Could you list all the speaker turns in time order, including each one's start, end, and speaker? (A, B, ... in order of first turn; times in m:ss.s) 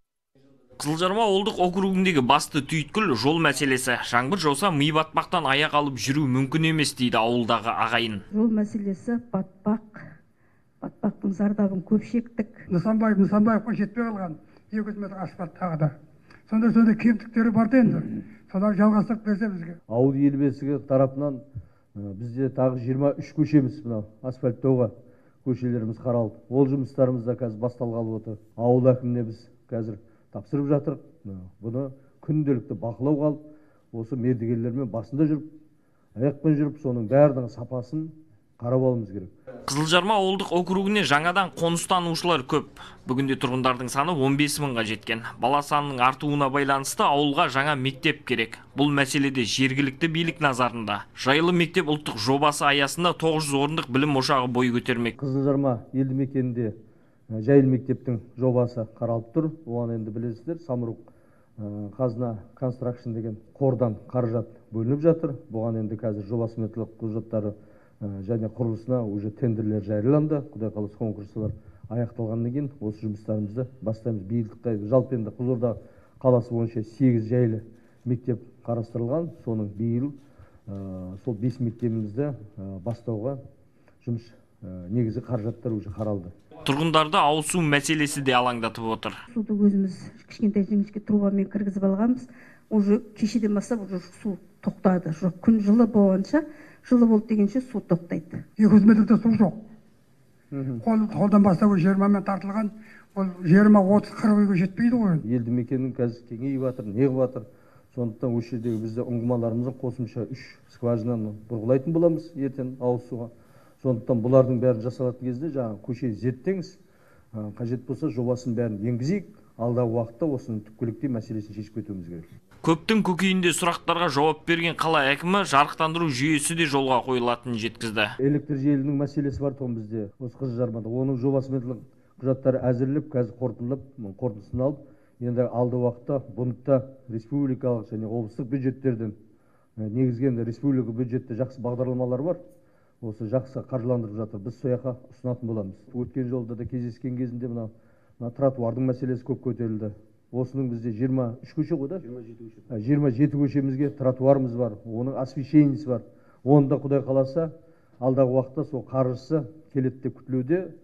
0:00.8-0:08.2 A
0:08.3-0:10.2 B
0:10.8-0:12.6 B
0:12.7-0:16.0 C
0:16.5-0:19.8 C
0:19.9-0:21.4 D
0:22.0-0:24.9 D
0:25.4-0:33.4 D
0:33.9-0:35.5 D
0:36.2-0:39.3 D
0:39.7-0:55.2 A
0:55.2-0:56.7 D
0:57.3-1:01.0 D
1:01.6-1:20.1 D
1:20.7-1:23.4 D
1:24.0-1:26.3 D
1:26.6-1:29.2 A
1:29.3-1:38.4 B
1:38.6-1:39.6 C
1:40.5-1:40.8 D
1:40.9-1:45.2 C
1:45.2-1:56.8 D
1:57.3-2:02.3 D
2:02.6-2:08.1 A
2:08.2-2:19.2 D
2:19.8-2:22.4 D
2:23.0-2:32.1 D
2:32.7-2:40.7 D